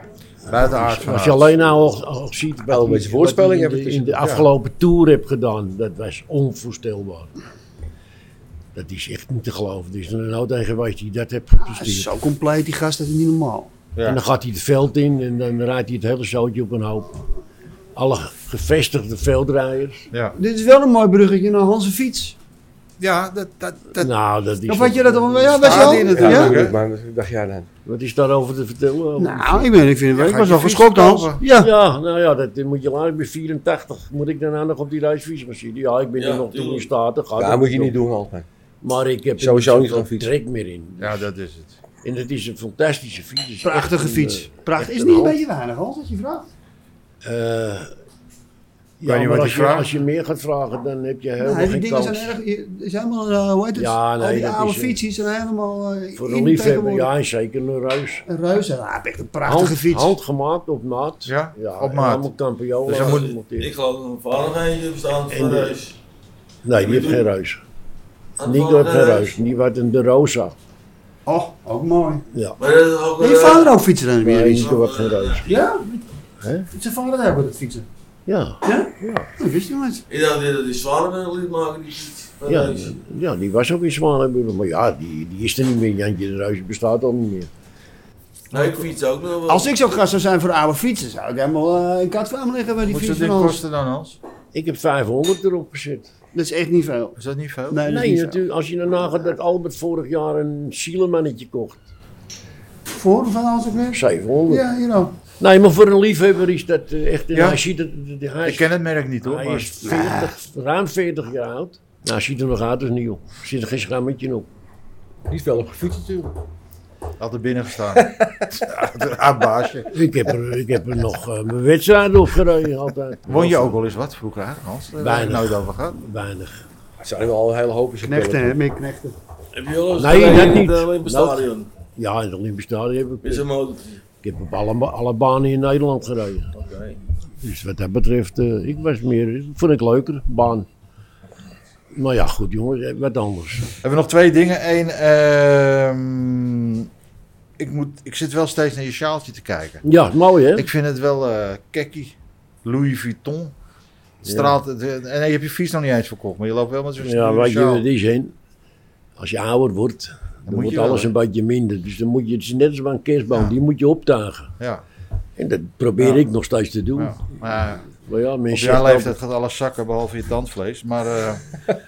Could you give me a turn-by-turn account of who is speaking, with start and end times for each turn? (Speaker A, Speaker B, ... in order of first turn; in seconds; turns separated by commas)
Speaker A: 0.5-1.6, Speaker B: 0.8-7.3, Speaker C: 2.7-4.2, Speaker A: 4.2-4.5, Speaker B: 8.7-12.1, Speaker D: 11.6-13.7, Speaker B: 14.0-17.1, Speaker B: 17.9-20.1, Speaker D: 20.4-22.4, Speaker A: 23.0-24.1, Speaker B: 24.0-26.2, Speaker D: 24.6-26.7, Speaker A: 25.6-26.8, Speaker C: 25.9-27.7, Speaker B: 27.9-29.7, Speaker D: 29.1-31.7, Speaker A: 30.1-31.4, Speaker B: 31.5-38.0, Speaker E: 36.2-36.9, Speaker C: 37.4-38.5, Speaker B: 38.8-41.2, Speaker C: 39.4-40.3, Speaker A: 41.0-41.8, Speaker B: 42.0-45.4, Speaker D: 43.6-46.5, Speaker B: 47.2-47.9, Speaker B: 49.0-52.4, Speaker A: 49.0-49.9, Speaker D: 51.4-57.1, Speaker B: 53.7-55.0, Speaker B: 56.1-58.2, Speaker D: 58.3-60.2, Speaker B: 59.4-63.7, Speaker A: 61.2-62.3, Speaker A: 62.9-63.3, Speaker E: 62.9-66.0, Speaker B: 65.3-65.8, Speaker B: 66.6-67.6, Speaker E: 66.8-67.3, Speaker E: 68.4-69.3, Speaker B: 68.4-70.5, Speaker D: 71.2-72.2, Speaker E: 72.6-73.8, Speaker D: 73.2-74.8, Speaker B: 74.2-75.5, Speaker E: 74.6-75.4, Speaker D: 75.4-76.0, Speaker B: 76.4-76.7, Speaker D: 76.7-77.9, Speaker B: 78.3-79.3, Speaker D: 78.6-80.0, Speaker E: 80.1-83.0, Speaker B: 82.5-87.5, Speaker E: 88.5-89.7, Speaker A: 88.5-88.9, Speaker D: 89.5-93.6, Speaker A: 92.9-94.2, Speaker B: 94.5-96.1, Speaker D: 96.3-97.1, Speaker A: 97.2-97.9, Speaker D: 97.7-98.4, Speaker B: 97.8-101.8, Speaker D: 102.9-105.2, Speaker B: 103.9-104.6, Speaker B: 105.2-108.7, Speaker A: 107.3-107.6, Speaker A: 108.4-109.7, Speaker B: 109.2-114.5, Speaker D: 109.8-110.3, Speaker C: 115.3-116.3, Speaker A: 117.2-119.9, Speaker C: 118.0-118.4, Speaker B: 119.9-123.8, Speaker A: 123.2-126.0, Speaker B: 125.0-126.6, Speaker C: 127.0-128.6, Speaker D: 128.0-129.2, Speaker E: 129.5-131.7, Speaker B: 130.0-133.4, Speaker E: 133.2-134.0, Speaker B: 134.2-136.5, Speaker E: 136.6-137.0, Speaker B: 137.4-140.7, Speaker B: 141.9-143.7, Speaker A: 143.8-146.9, Speaker A: 147.6-149.8, Speaker B: 149.8-150.7, Speaker A: 150.6-153.5, Speaker B: 154.2-154.6, Speaker A: 154.2-157.8, Speaker B: 157.0-158.3, Speaker B: 159.2-164.5, Speaker A: 160.5-161.1, Speaker A: 164.6-164.8, Speaker B: 165.4-167.2, Speaker A: 166.0-166.3, Speaker A: 166.9-167.9, Speaker B: 167.9-169.2, Speaker A: 168.5-171.4